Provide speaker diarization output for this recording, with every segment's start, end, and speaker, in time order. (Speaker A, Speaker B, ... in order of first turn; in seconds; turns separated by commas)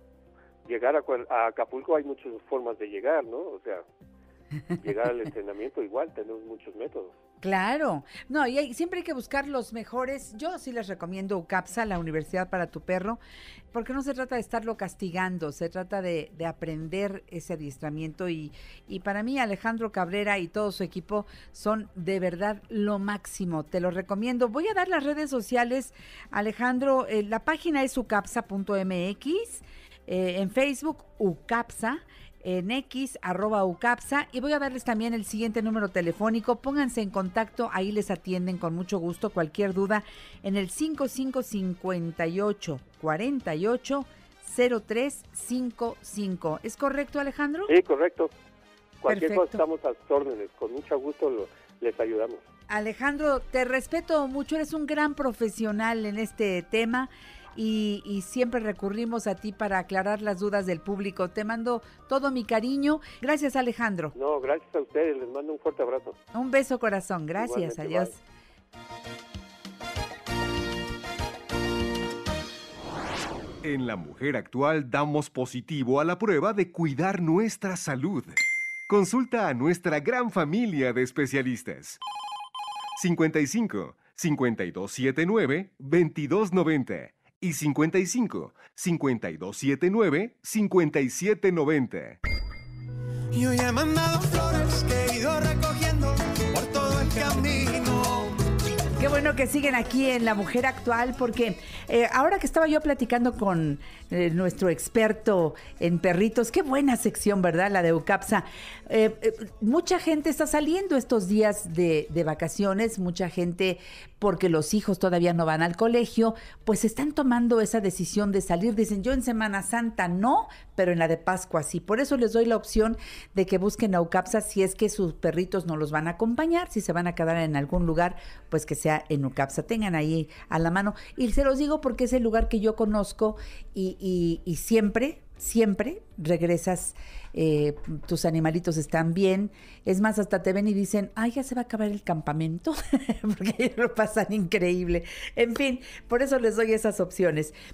Speaker A: 0.6-3.8, Speaker A: 4.8-7.1, Speaker B: 7.4-13.2, Speaker B: 13.7-47.8, Speaker A: 47.7-48.3, Speaker A: 49.0-52.4, Speaker B: 49.0-49.6, Speaker B: 52.7-64.1, Speaker A: 64.1-66.2, Speaker B: 66.3-68.2, Speaker A: 67.4-68.1, Speaker C: 73.6-78.3, Speaker C: 78.9-82.0, Speaker C: 83.0-92.2, Speaker D: 93.3-98.3, Speaker B: 99.0-147.5